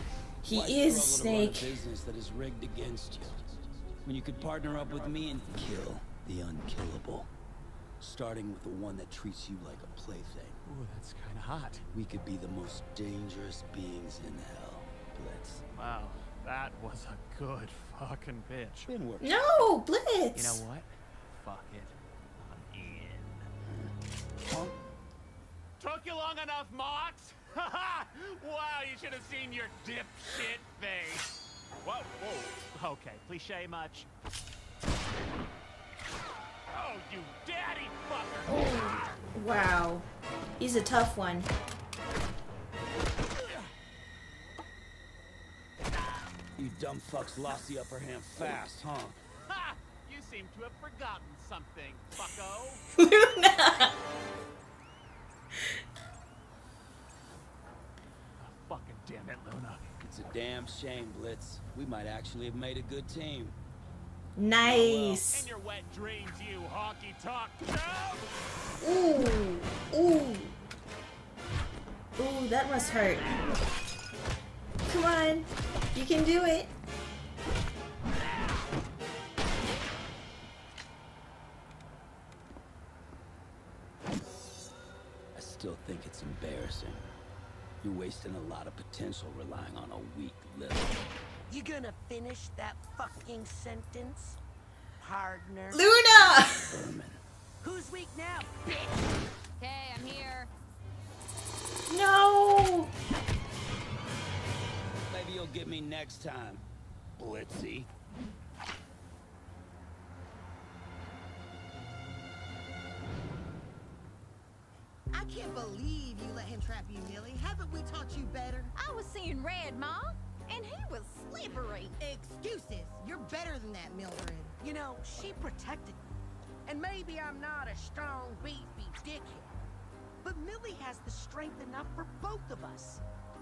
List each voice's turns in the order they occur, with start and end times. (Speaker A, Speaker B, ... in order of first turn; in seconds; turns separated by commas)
Speaker A: 0.4-1.8, Speaker B: 0.5-7.3, Speaker B: 8.0-10.6, Speaker C: 10.7-11.8, Speaker B: 11.9-15.6, Speaker C: 15.8-18.9, Speaker B: 18.9-19.7, Speaker A: 19.2-20.6, Speaker C: 20.3-23.5, Speaker B: 23.7-24.8, Speaker C: 25.8-31.3, Speaker C: 31.8-34.1, Speaker C: 36.7-38.7, Speaker A: 38.5-40.1, Speaker A: 40.6-41.5, Speaker B: 46.6-49.2, Speaker C: 49.5-52.8, Speaker A: 53.0-54.0, Speaker C: 58.4-59.9, Speaker B: 60.0-63.6, Speaker A: 64.4-65.5, Speaker B: 64.6-65.2, Speaker C: 65.2-68.3, Speaker A: 68.8-70.5, Speaker A: 72.2-73.3, Speaker A: 74.9-76.7, Speaker B: 85.3-87.1, Speaker B: 87.8-91.0, Speaker D: 91.5-94.4, Speaker D: 95.0-95.8, Speaker A: 95.7-96.8, Speaker B: 96.7-97.2, Speaker D: 97.6-99.1, Speaker A: 101.9-102.9, Speaker B: 105.1-106.6, Speaker B: 107.2-107.9, Speaker E: 115.1-118.7, Speaker F: 118.8-122.0, Speaker E: 122.0-124.5, Speaker D: 124.6-126.1, Speaker D: 126.7-129.6, Speaker D: 130.2-133.0